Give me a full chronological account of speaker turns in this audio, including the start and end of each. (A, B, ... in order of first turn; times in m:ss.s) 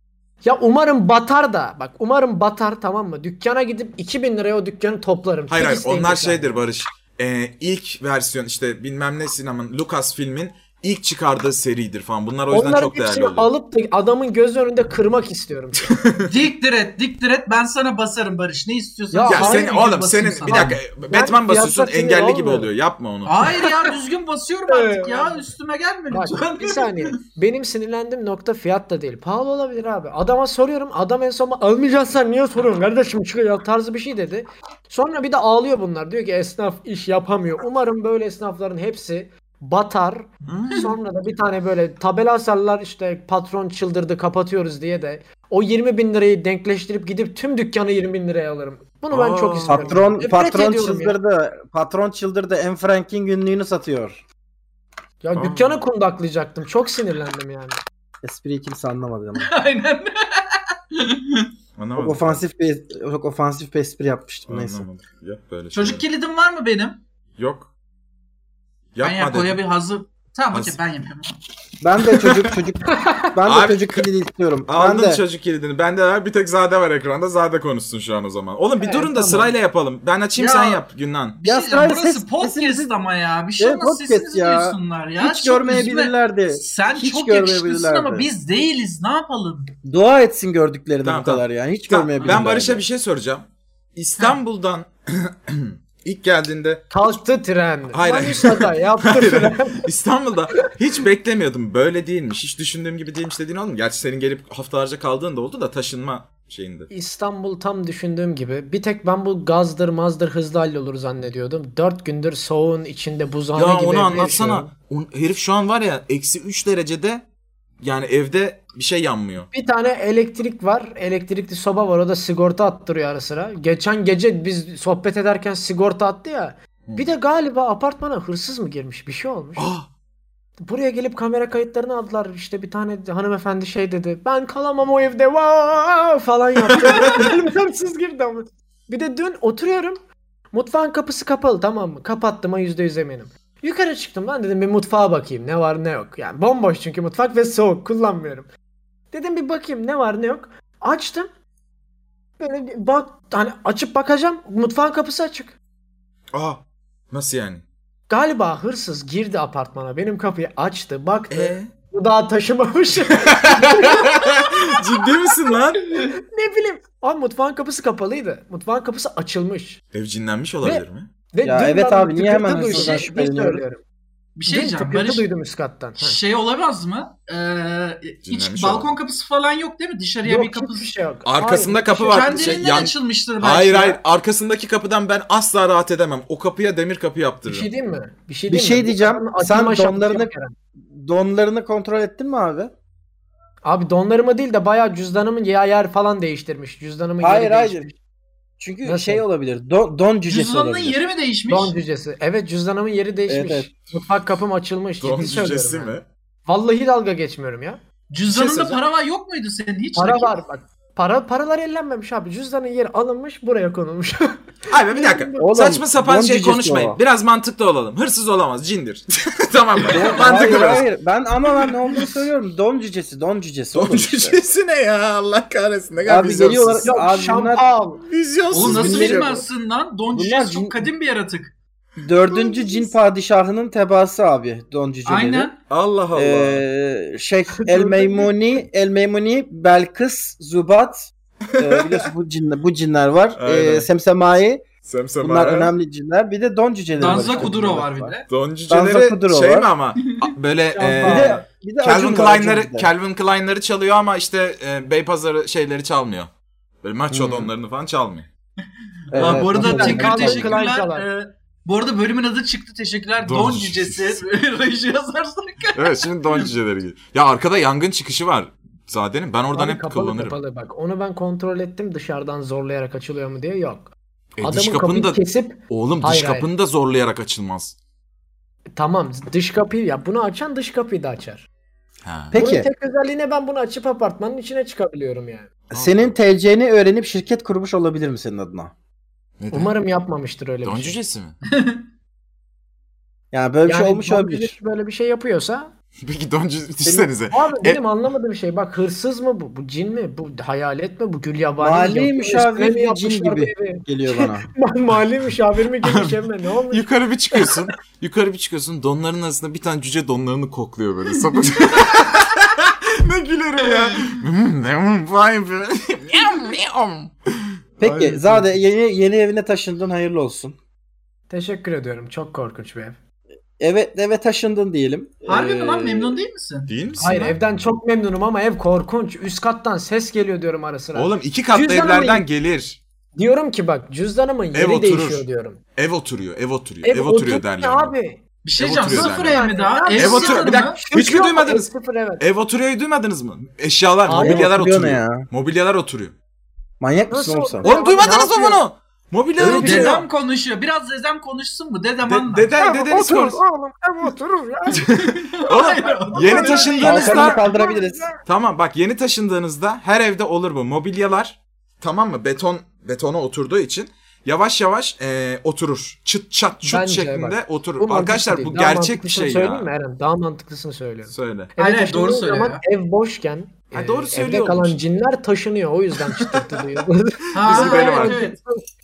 0:00.4-0:06.6 A
0:05.5-0:13.5 B
0:12.5-0:16.0 A
0:15.9-0:16.3 B
0:16.2-0:20.8 C
0:19.1-0:19.9 A
0:19.3-0:23.3 B
0:20.4-0:22.7 A
0:23.2-0:27.1 C
0:23.6-0:23.9 A
0:24.7-0:25.4 A
0:26.1-0:51.2 A
0:40.4-0:40.9 B
0:49.1-0:50.1 B
0:49.7-0:54.2 D
0:55.2-0:57.8 A
0:55.3-0:55.8 B
0:58.2-0:59.5 D
0:59.4-1:01.5 C
1:01.8-1:02.4 B
1:02.0-1:04.8 D
1:04.5-1:06.0 B
1:05.7-1:07.0 C
1:07.4-1:07.7 B
1:08.9-1:09.6 B
1:09.0-1:11.4 C
1:11.8-1:15.2 D
1:12.9-1:13.3 A
1:13.4-1:14.0 B
1:14.7-1:21.4 B
1:18.8-1:19.5 A
1:20.4-1:20.8 C
1:21.4-1:29.7 C
1:21.4-1:22.9 D
1:23.6-1:28.3 D
1:29.8-1:32.8 D
1:31.0-1:36.9 B
1:36.9-1:39.8 A
1:37.9-1:46.9 B
1:46.9-1:54.7 A
1:53.5-1:57.2 B
1:57.8-1:59.5 B
1:59.5-2:09.7 A
2:09.6-2:09.9 B
2:10.6-2:20.0 A
2:16.8-2:17.2 C
2:20.5-2:28.5 A
2:29.1-2:31.3 A
2:32.4-2:35.6 A
2:36.3-2:37.6 B
2:38.1-2:44.4 A
2:41.3-2:41.7 B
2:43.3-2:45.9 B
2:46.2-2:49.8 A
2:49.9-2:51.1 B
2:50.6-2:53.8 A
2:51.4-2:53.6 D
2:52.6-2:53.0 C
2:54.4-2:55.3 C
2:54.5-2:56.2 A
2:56.0-3:00.9 C
2:58.3-2:58.9 B
3:00.2-3:02.6 A
3:01.2-3:07.7 B
3:02.1-3:04.0 C
3:07.5-3:10.5 A
3:08.5-3:10.3 D
3:10.9-3:12.7 D
3:13.6-3:17.9 A
3:17.2-3:17.9 D
3:18.6-3:21.0 D
3:18.8-3:19.2 A
3:20.3-3:21.8 C
3:21.5-3:27.8 A
3:23.3-3:23.7 D
3:25.0-3:26.0 B
3:28.1-3:30.3 C
3:28.3-3:28.8 B
3:30.0-3:35.5 A
3:34.7-3:40.8 B
3:35.4-3:37.0 D
3:39.9-3:40.6 C
3:39.9-3:44.4 D
3:43.7-3:46.9 B
3:46.0-3:47.7 D
3:46.8-3:48.0 A
3:48.0-3:49.4 B
3:48.5-3:51.5 C
3:48.6-3:49.4 D
3:50.1-3:50.9 D
3:52.0-3:55.5 D
3:52.3-3:52.9 A
3:55.0-3:55.6 C
3:55.7-3:56.6 B
3:56.1-4:04.6 D
3:57.6-3:58.3 A
4:01.6-4:02.1 B
4:03.4-4:03.9 B
4:04.8-4:05.7 B
4:05.2-4:08.2 D
4:07.0-4:08.3 C
4:07.1-4:07.5 A
4:08.3-4:16.3 B
4:08.7-4:09.7 D
4:10.7-4:11.4 A
4:11.0-4:12.9 D
4:16.8-4:18.3 B
4:17.1-4:17.5 D
4:19.1-4:26.5 C
4:19.1-4:20.6 D
4:19.2-4:19.4 B
4:19.2-4:21.0 A
4:23.2-4:24.2 B
4:25.7-4:30.4 B
4:29.5-4:36.5 A
4:34.4-4:37.8 B
4:38.7-4:41.5 A
4:42.0-4:42.4 B
4:42.3-4:42.7 D
4:42.3-4:45.5 A
4:45.7-4:46.2 B
4:45.7-4:48.7 D
4:49.4-4:49.7 B
4:49.5-4:51.0 A
4:50.6-4:51.4 B
4:51.5-4:51.8 C
4:53.3-4:54.5 D
4:53.6-4:55.7 A
4:56.0-4:57.8 B
4:56.8-4:57.1 D
4:57.3-5:07.6 A
5:01.6-5:04.5 D
5:06.7-5:18.4 B
5:13.6-5:14.1 C
5:17.8-5:20.6 D
5:21.3-5:23.0 A
5:23.6-5:26.2 D
5:25.3-5:26.7 C
5:26.7-5:27.4 B
5:27.0-5:32.2 A
5:30.9-5:32.8 B
5:33.2-5:35.6 A
5:34.5-5:37.9 B
5:36.8-5:38.2 A
5:38.4-5:40.8 C
5:38.6-5:39.4 B
5:38.9-5:42.2 A
5:39.9-5:46.1 B
5:44.0-5:44.5 A
5:44.2-5:45.3 D
5:46.8-5:47.7 D
5:47.1-5:48.6 A
5:47.6-5:50.1 B
5:49.4-5:52.5 C
5:49.4-5:50.0 A
5:52.0-5:53.4 B
5:52.6-5:54.9 A
5:54.7-5:57.4 B
5:54.8-5:57.3 C
5:56.1-5:58.2 A
5:56.8-5:58.1 D
5:58.2-6:09.7 B
6:06.6-6:18.6 A
6:11.1-6:11.5 B
6:11.6-6:12.6 C
6:13.7-6:14.8 B
6:16.1-6:16.5 B
6:17.3-6:18.4 C
6:17.4-6:18.2 B